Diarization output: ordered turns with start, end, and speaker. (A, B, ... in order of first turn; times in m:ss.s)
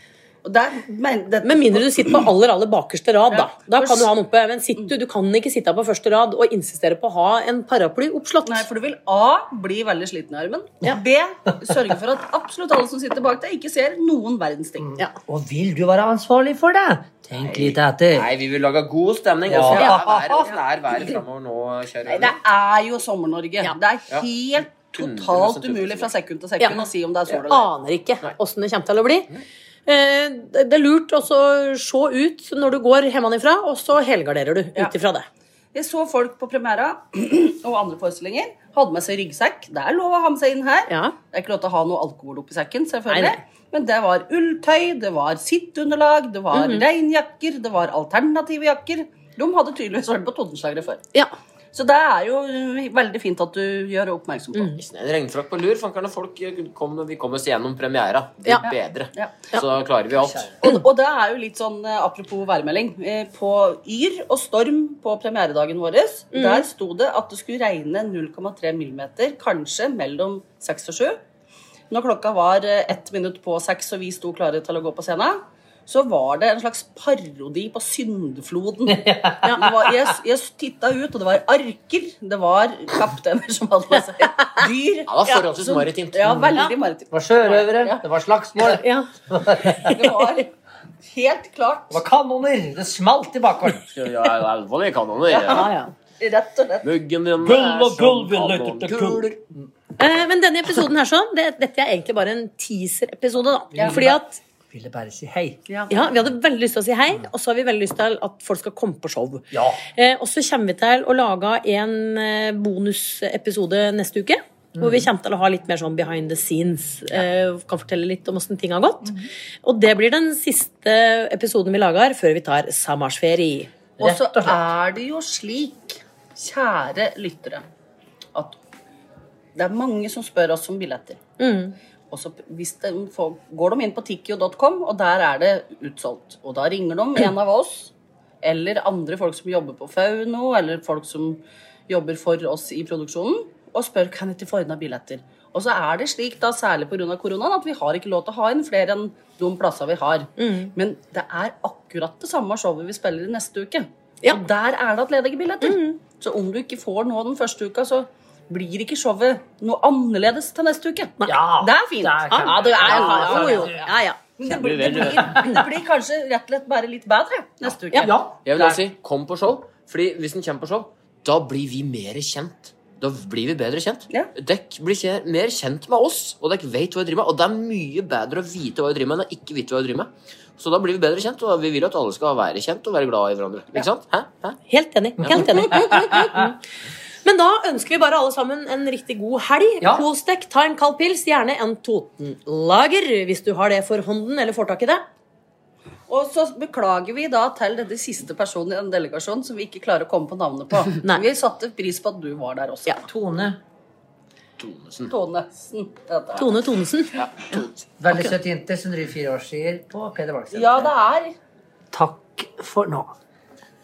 0:00.4-0:02.3 A
0:01.4-0:08.6 B
0:03.3-0:04.1 A
0:08.4-0:15.0 A
0:14.8-0:18.3 C
0:17.4-0:22.4 D
0:19.5-0:20.6 C
0:19.7-0:20.0 B
0:22.0-0:27.7 A
0:24.9-0:26.1 D
0:26.6-0:26.9 B
0:27.5-0:29.3 B
0:29.9-0:35.3 B
0:35.7-0:51.0 A
0:40.9-0:41.2 B
0:43.1-0:43.4 B
0:46.5-0:46.8 B
0:51.7-0:54.8 A
0:54.8-1:00.5 D
0:58.6-0:59.4 A
1:00.5-1:11.2 A
1:06.3-1:06.6 B
1:11.9-1:28.0 A
1:18.9-1:19.8 C
1:25.1-1:26.4 D
1:27.1-1:30.0 C
1:28.6-1:29.1 B
1:29.8-1:30.5 A
1:29.8-1:30.4 B
1:31.0-1:32.0 A
1:31.9-1:33.9 C
1:33.9-1:35.7 D
1:35.3-1:36.9 A
1:35.4-1:35.9 B
1:36.8-1:39.4 D
1:37.4-1:39.6 C
1:40.0-1:44.4 B
1:43.7-1:45.6 C
1:43.8-1:44.0 A
1:45.7-1:46.0 A
1:45.9-2:03.7 B
1:49.5-1:49.8 C
1:54.8-1:55.1 C
2:04.0-2:04.6 C
2:04.0-2:07.6 A
2:09.6-2:11.2 A
2:11.4-2:11.8 B
2:12.1-2:43.8 A
2:30.4-2:30.7 B
2:35.6-2:36.0 B
2:41.3-2:43.9 C
2:42.3-2:44.2 B
2:42.7-2:43.1 D
2:44.4-2:48.2 A
2:44.5-2:45.6 D
2:45.0-2:45.5 C
2:47.9-2:48.8 C
2:48.4-3:04.6 D
3:04.7-3:06.6 B
3:05.2-3:05.6 D
3:05.6-3:05.9 A
3:07.2-3:15.0 B
3:09.8-3:10.1 C
3:16.1-3:23.0 A
3:23.0-3:23.6 C
3:24.6-3:25.2 D
3:25.1-3:26.6 A
3:26.4-3:28.3 B
3:27.1-3:27.8 D
3:28.0-3:30.9 C
3:30.5-3:31.4 A
3:31.9-3:33.1 C